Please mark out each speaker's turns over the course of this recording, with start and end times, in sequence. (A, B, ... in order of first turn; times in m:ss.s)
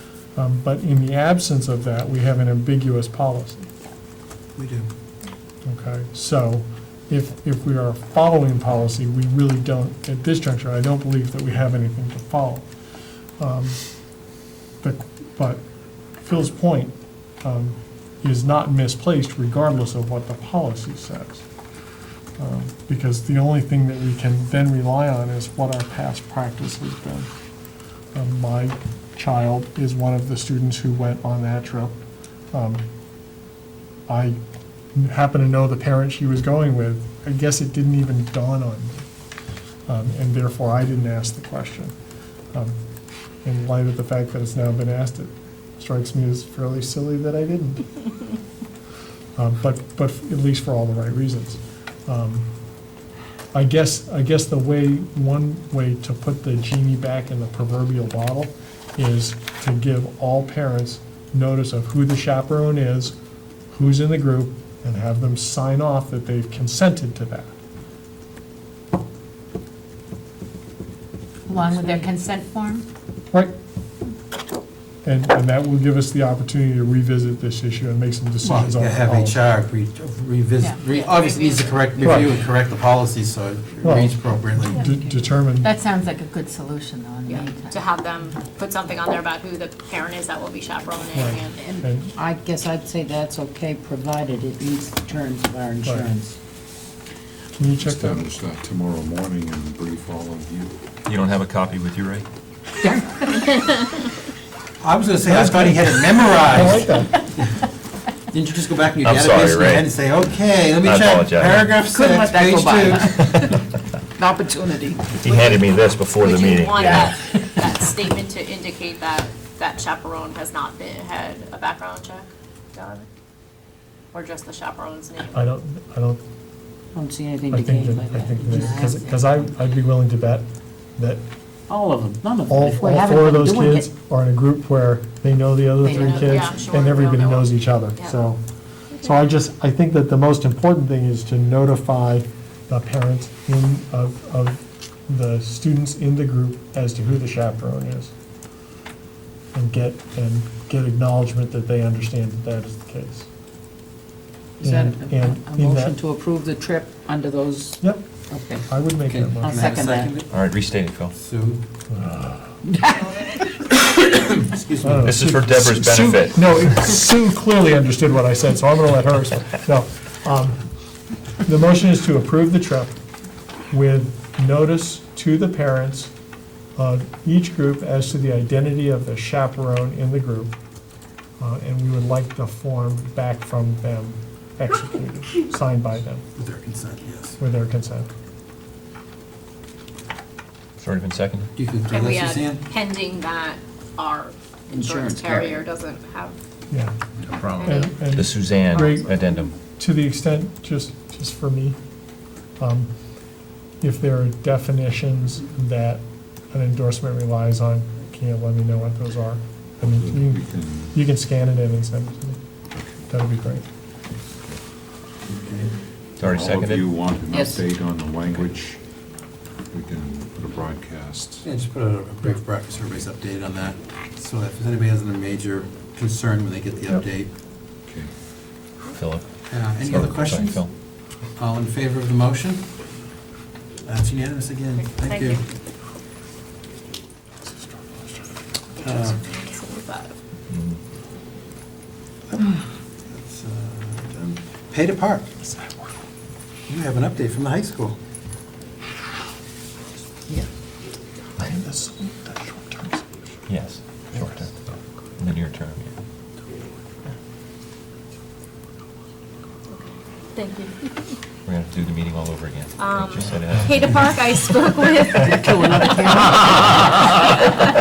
0:00.4-0:03.7 A
0:04.6-0:04.9 B
0:05.6-0:12.7 A
0:13.4-0:13.8 A
0:14.8-0:15.6 A
0:16.2-0:21.4 A
0:22.4-0:27.3 A
0:28.1-0:32.0 A
0:32.5-0:32.8 A
0:34.1-0:34.4 A
0:35.0-0:39.0 A
0:39.9-0:42.0 A
0:43.4-0:48.0 A
0:49.4-0:52.5 A
0:53.5-1:03.2 A
1:03.7-1:07.5 A
1:11.5-1:12.9 C
1:15.0-1:19.4 A
1:18.4-1:24.8 B
1:20.9-1:22.2 D
1:22.0-1:22.4 A
1:23.8-1:25.7 A
1:25.6-1:27.9 C
1:27.3-1:31.6 D
1:31.1-1:32.1 A
1:31.6-1:36.4 E
1:35.8-1:36.1 A
1:37.6-1:38.3 A
1:37.7-1:40.8 F
1:41.1-1:42.2 G
1:42.8-1:43.7 E
1:44.8-1:47.5 B
1:45.3-1:47.2 A
1:48.3-1:53.6 B
1:49.0-1:49.9 G
1:50.8-1:51.8 G
1:51.8-1:53.6 E
1:54.2-1:55.4 E
1:55.2-1:57.1 G
1:56.2-2:03.1 D
1:56.8-1:57.4 E
2:04.1-2:05.4 D
2:05.3-2:06.2 A
2:06.9-2:09.4 E
2:07.5-2:10.5 A
2:11.0-2:11.2 A
2:11.7-2:13.9 E
2:12.5-2:18.4 A
2:15.8-2:16.6 C
2:15.9-2:18.2 D
2:18.9-2:19.2 D
2:19.0-2:28.1 A
2:29.5-2:33.3 A
2:34.6-2:38.8 E
2:34.6-2:36.0 A
2:37.8-2:38.1 A
2:38.6-2:39.7 A
2:39.1-2:40.3 B
2:39.4-2:40.2 E
2:40.3-2:41.2 G
2:41.2-2:41.6 B
2:41.9-2:42.6 A
2:42.6-2:43.5 E
2:44.1-2:45.2 B
2:44.8-2:50.6 A
2:45.0-2:46.5 G
2:51.4-2:53.0 A
2:53.7-2:56.1 A
2:56.8-3:00.6 A
3:01.4-3:06.2 A
3:06.4-3:07.4 B
3:07.4-3:08.1 A
3:10.8-3:11.5 G
3:11.6-3:12.6 B
3:11.9-3:16.4 D
3:14.7-3:15.6 E
3:16.7-3:17.0 A
3:17.2-3:17.7 F
3:17.6-3:19.3 D
3:17.6-3:21.8 A
3:18.1-3:19.5 G
3:22.6-3:22.9 A
3:23.8-3:32.4 A
3:29.9-3:31.0 F
3:32.8-3:33.0 F
3:33.0-3:33.6 A
3:35.3-3:35.7 B
3:36.2-3:36.9 G
3:36.2-3:38.8 F
3:37.3-3:37.6 E
3:39.7-3:41.5 F
3:41.4-3:47.3 B
3:48.9-3:50.7 G
3:49.5-3:50.7 B
3:51.4-3:52.7 B
3:53.8-3:55.4 B
3:54.8-3:55.4 D
3:58.8-4:00.2 D
3:58.8-3:59.2 B
4:00.5-4:00.8 G
4:03.1-4:05.3 B
4:06.7-4:08.0 B
4:11.4-4:13.4 A
4:13.5-4:14.6 G
4:14.1-4:14.4 A
4:15.2-4:15.9 G
4:19.7-4:21.2 D
4:21.5-4:24.2 G
4:22.8-4:26.2 D
4:25.2-4:27.1 E
4:26.8-4:27.5 D